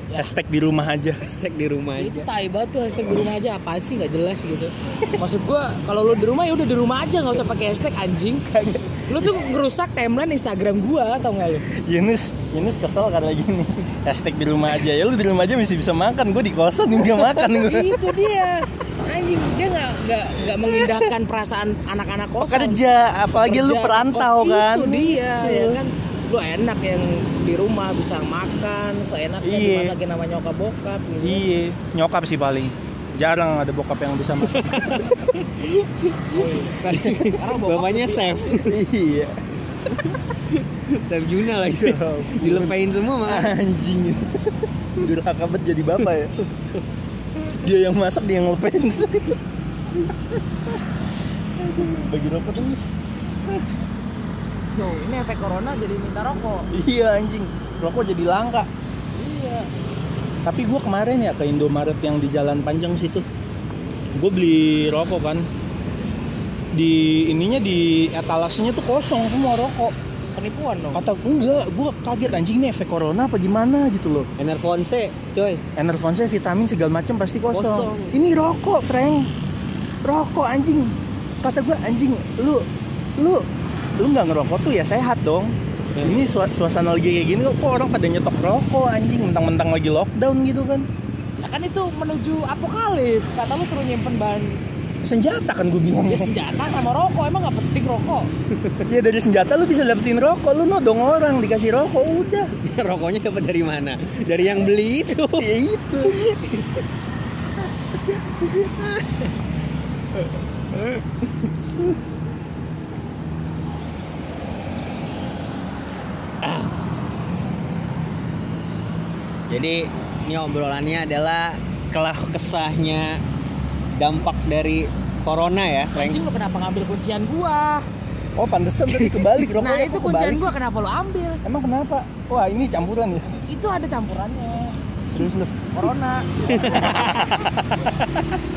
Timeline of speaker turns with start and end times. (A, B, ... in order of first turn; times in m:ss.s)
0:00.2-0:01.2 A
0:01.3-0:02.3 B
0:02.0-0:08.5 C
0:08.5-0:09.5 A
0:09.1-0:11.6 C
0:11.8-0:18.1 A
0:17.2-0:22.8 C
0:20.7-0:21.1 A
0:22.4-0:25.8 A
0:23.4-0:31.4 C
0:29.4-0:30.0 A
0:31.2-0:35.2 A
0:34.5-0:36.3 B
0:36.3-0:38.6 C
0:36.8-0:38.8 B
0:36.9-0:37.3 A
0:38.6-0:39.5 A
0:40.1-0:43.5 B
0:41.7-0:46.3 A
0:47.5-0:49.4 A
0:51.6-0:52.9 A
0:54.7-0:56.7 C
0:56.7-0:58.7 A
0:59.2-0:59.7 C
1:00.4-1:03.2 A
1:04.2-1:05.5 A
1:06.7-1:10.0 A
1:10.3-1:11.0 C
1:10.9-1:14.3 A
1:14.4-1:15.6 B
1:15.8-1:19.3 A
1:17.5-1:18.2 B
1:20.0-1:22.7 A
1:23.2-1:23.5 A
1:24.0-1:30.9 A
1:26.0-1:26.2 B
1:31.4-1:34.6 C
1:35.0-1:36.3 A
1:36.0-1:38.3 C
1:38.9-1:42.5 A
1:42.6-1:46.8 B
1:45.2-1:46.3 A
1:48.0-1:49.3 B
1:50.8-1:51.0 B
1:56.4-1:56.7 B
1:59.5-2:03.2 B
2:03.9-2:06.2 B
2:06.0-2:07.9 C
2:08.4-2:10.5 A
2:08.9-2:09.4 B
2:09.6-2:11.4 C
2:11.4-2:13.4 A
2:13.4-2:14.8 C
2:15.1-2:15.6 A
2:15.7-2:17.4 C
2:16.4-2:18.2 A
2:16.5-2:17.2 B